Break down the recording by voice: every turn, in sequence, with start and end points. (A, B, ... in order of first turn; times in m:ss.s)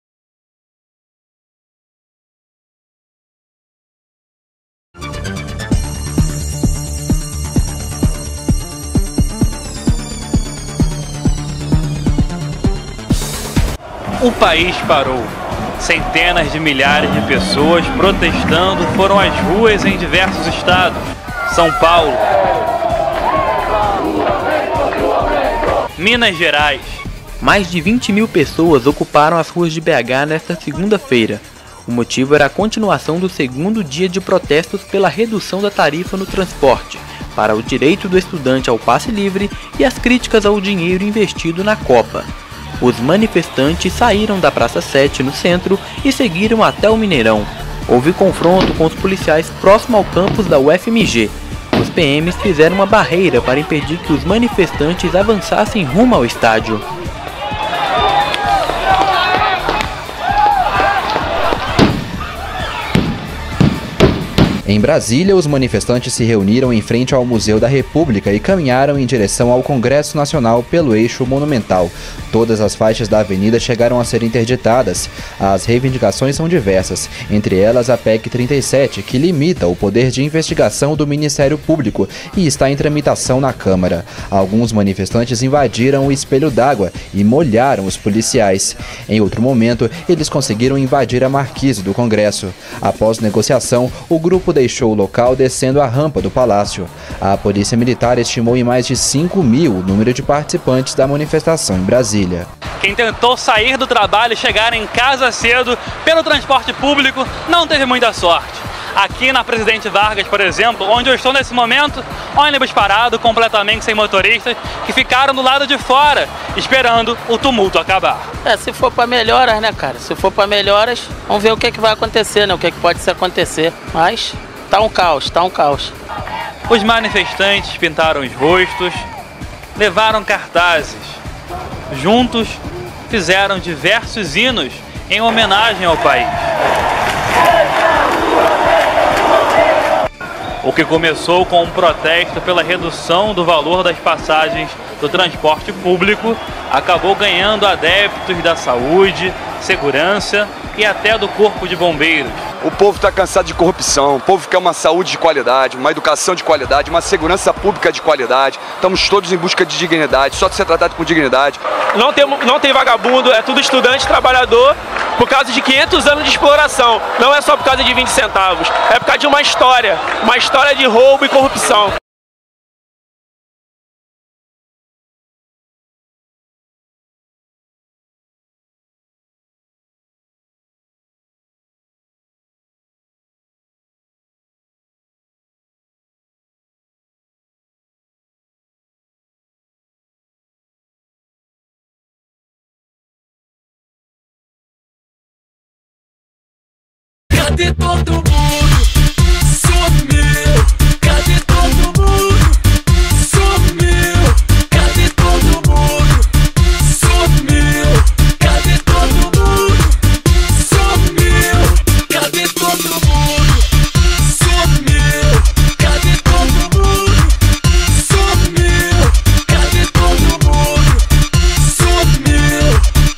0:14.2-0:22.3 A
0:26.0-0:27.0 A
0:27.4-0:42.3 B
0:42.8-0:56.8 B
1:04.7-1:42.5 C
1:42.8-1:58.3 A
1:58.4-2:05.9 D
2:06.7-2:09.1 A
2:09.8-2:11.2 A
2:11.9-2:16.5 A
2:20.6-2:32.4 A
2:32.6-2:41.6 E
2:41.9-2:52.0 F
3:17.9-3:18.2 B
3:20.1-3:20.4 B
3:21.8-3:22.2 B
3:23.9-3:24.1 B
3:25.0-3:26.0 B
3:27.5-3:28.0 B
3:29.0-3:29.7 B
3:32.4-3:33.0 B